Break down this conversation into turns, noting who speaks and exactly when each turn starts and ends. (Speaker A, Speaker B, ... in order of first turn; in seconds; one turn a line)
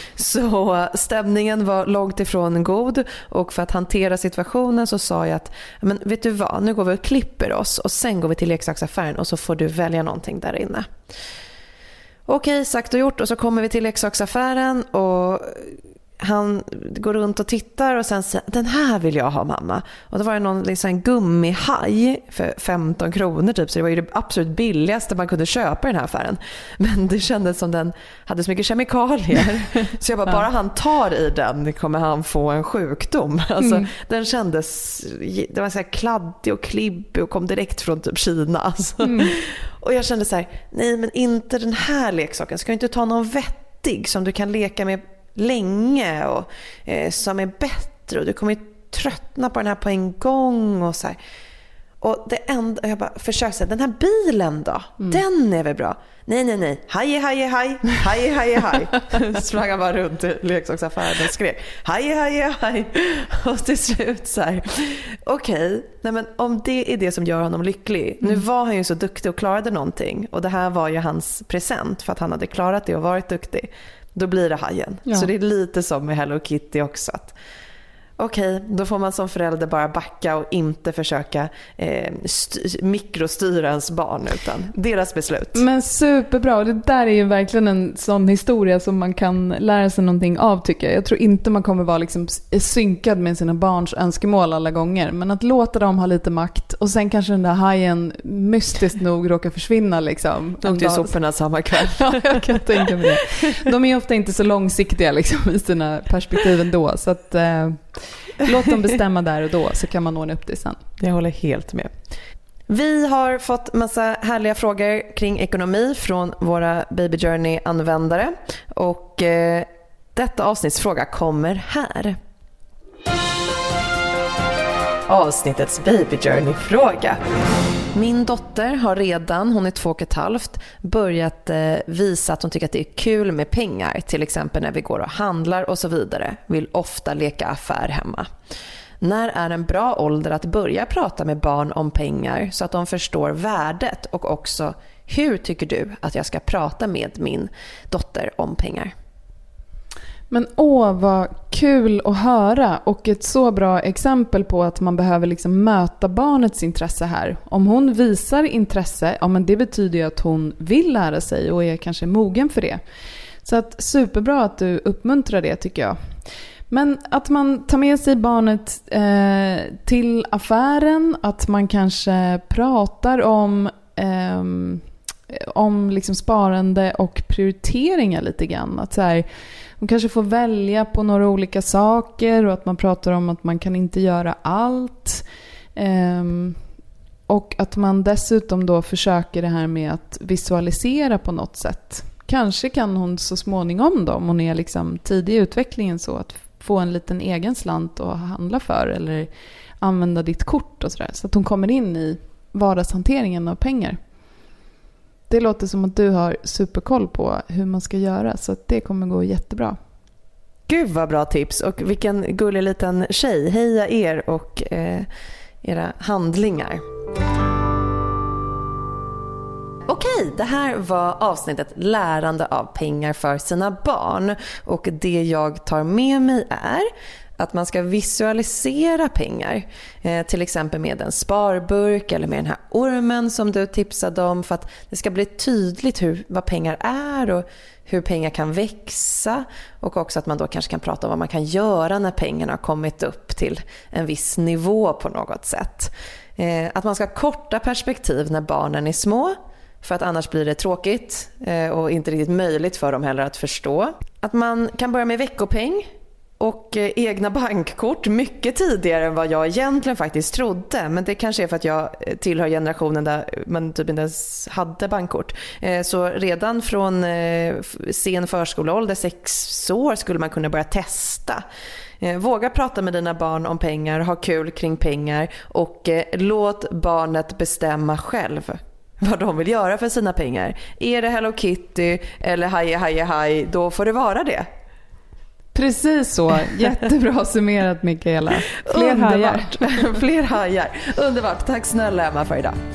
Speaker A: 0.1-10.9
Speaker A: 12.3-51.2
Speaker B: 33.6-33.9
Speaker B: 39.0-39.3
Speaker A: 52.0-77.3
Speaker A: 78.2-85.6
Speaker B: 85.5-101.2
Speaker A: 100.6-103.0
Speaker B: 101.7-110.8
Speaker A: 111.0-111.9
Speaker A: 112.7-122.2
Speaker A: 125.1-127.2
Speaker A: 127.9-138.3
Speaker A: 139.0-148.9
Speaker B: 150.3-162.8
Speaker B: 163.4-166.0
Speaker B: 166.7-179.2
Speaker B: 179.8-185.2
Speaker B: 185.8-186.6
Speaker B: 187.3-199.3
Speaker B: 199.8-204.0
Speaker B: 205.3-209.8
Speaker A: 210.7-215.1
Speaker A: 215.6-216.8
Speaker A: 219.9-255.9
Speaker A: 256.4-271.4
Speaker A: 272.0-284.5
Speaker B: 285.5-289.9
Speaker A: 288.6-292.6